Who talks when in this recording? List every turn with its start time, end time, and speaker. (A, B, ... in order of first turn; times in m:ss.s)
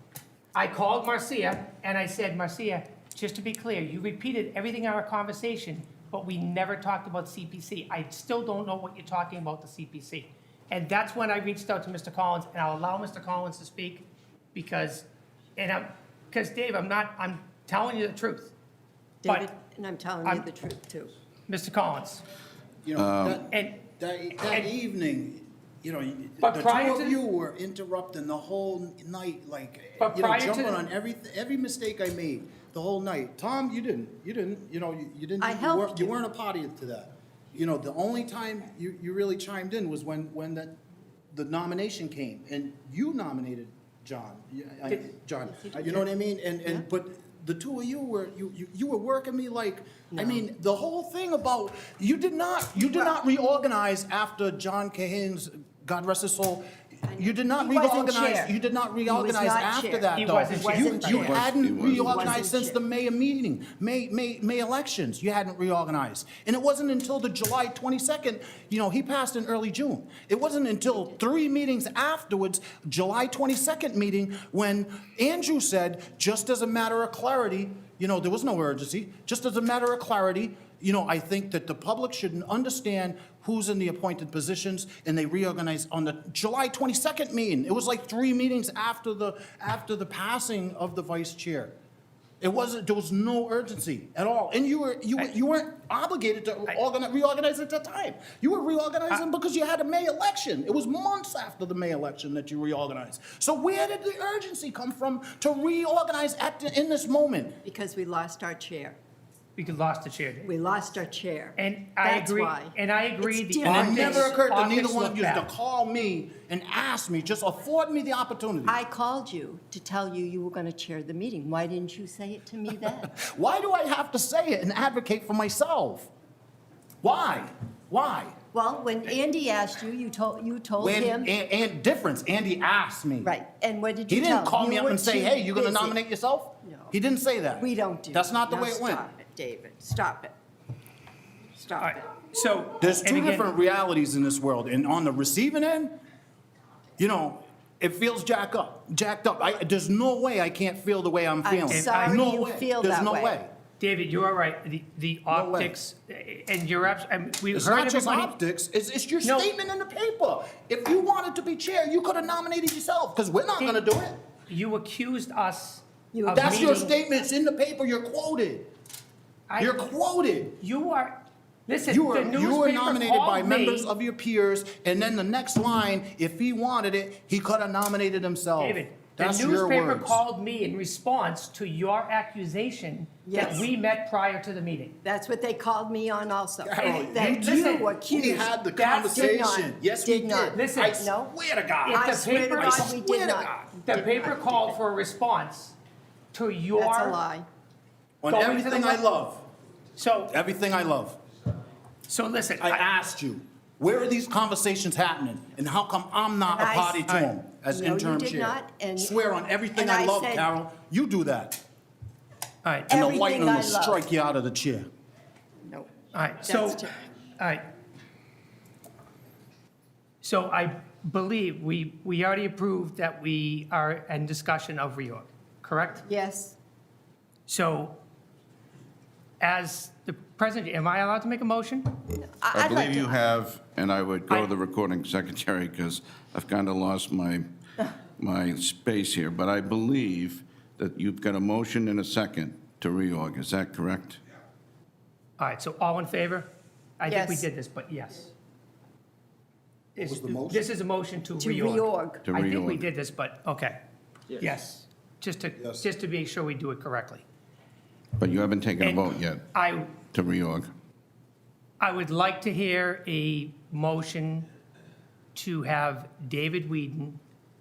0:00.5-0:15.0 A
0:15.6-0:18.5 A
0:19.2-0:21.1 B
0:21.5-0:22.2 A
0:22.8-0:40.8 C
0:23.0-0:23.4 D
0:23.5-0:23.8 A
0:24.4-0:24.7 A
0:26.4-0:27.2 A
0:30.0-0:30.8 A
0:35.4-0:36.1 B
0:41.3-1:31.7 C
0:45.6-0:46.0 B
0:50.1-0:50.4 B
0:57.1-0:58.5 B
0:59.0-1:02.8 B
1:00.1-1:01.3 A
1:01.2-1:02.2 D
1:32.4-1:47.6 C
1:47.6-1:49.0 B
1:49.6-1:50.5 A
1:50.4-1:54.3 B
1:51.6-1:55.5 A
1:53.6-1:58.8 C
1:58.6-2:03.1 B
2:03.1-2:06.1 C
2:07.0-2:08.3 C
2:08.5-2:11.3 B
2:10.8-2:13.3 C
2:13.2-2:16.0 B
2:14.1-2:19.0 C
2:16.6-2:16.9 B
2:17.5-2:20.3 B
2:21.6-2:22.0 B
2:21.8-2:23.5 A
2:22.8-2:26.0 C
2:27.0-2:33.5 C
2:31.4-2:33.4 B
2:31.7-2:32.2 A
2:33.8-2:38.3 A
2:35.3-2:35.8 C
2:37.5-2:44.2 C
2:39.2-2:39.5 A
2:44.5-2:46.9 A
2:46.1-2:46.8 B
2:46.3-2:48.7 C
2:49.5-2:49.9 A
2:49.6-2:50.6 C
2:50.6-2:53.9 A
2:51.8-3:00.2 C
2:58.6-3:04.9 A
3:03.2-3:03.7 B
3:05.0-3:08.5 B
3:06.6-3:13.7 C
3:06.8-3:07.9 A
3:08.7-3:09.4 A
3:09.2-3:11.3 B
3:10.5-3:11.0 A
3:11.8-3:13.0 A
3:11.9-3:13.7 B
3:13.7-3:15.8 A
3:16.3-3:17.2 A
3:16.8-3:17.5 B
3:18.2-3:19.4 C
3:18.2-3:19.0 A
3:20.0-3:20.3 A
3:20.3-3:21.2 C
3:22.1-3:22.8 A
3:22.6-3:31.6 C
3:26.5-3:27.1 B
3:27.1-3:27.3 A
3:27.7-3:29.2 B
3:29.7-3:30.5 B
3:32.6-3:32.9 A
3:32.9-3:34.0 B
3:32.9-3:34.9 C
3:35.6-3:37.1 B
3:36.1-3:37.6 A
3:40.2-3:46.0 A
3:46.0-3:46.6 B
3:47.5-3:48.0 A
3:49.4-3:52.0 A
3:52.1-3:53.2 B
3:52.5-3:57.5 D
3:58.2-4:04.2 D
4:05.4-4:06.5 A
4:07.0-4:08.3 A
4:07.0-4:07.5 B
4:10.0-4:13.8 A
4:10.0-4:10.6 C
4:11.4-4:12.2 B
4:12.2-4:12.8 D
4:14.4-4:17.2 A
4:15.6-4:15.9 C
4:18.2-4:19.4 D
4:18.8-4:19.9 A
4:20.0-4:20.7 D
4:21.8-4:24.5 A
4:25.3-4:27.2 A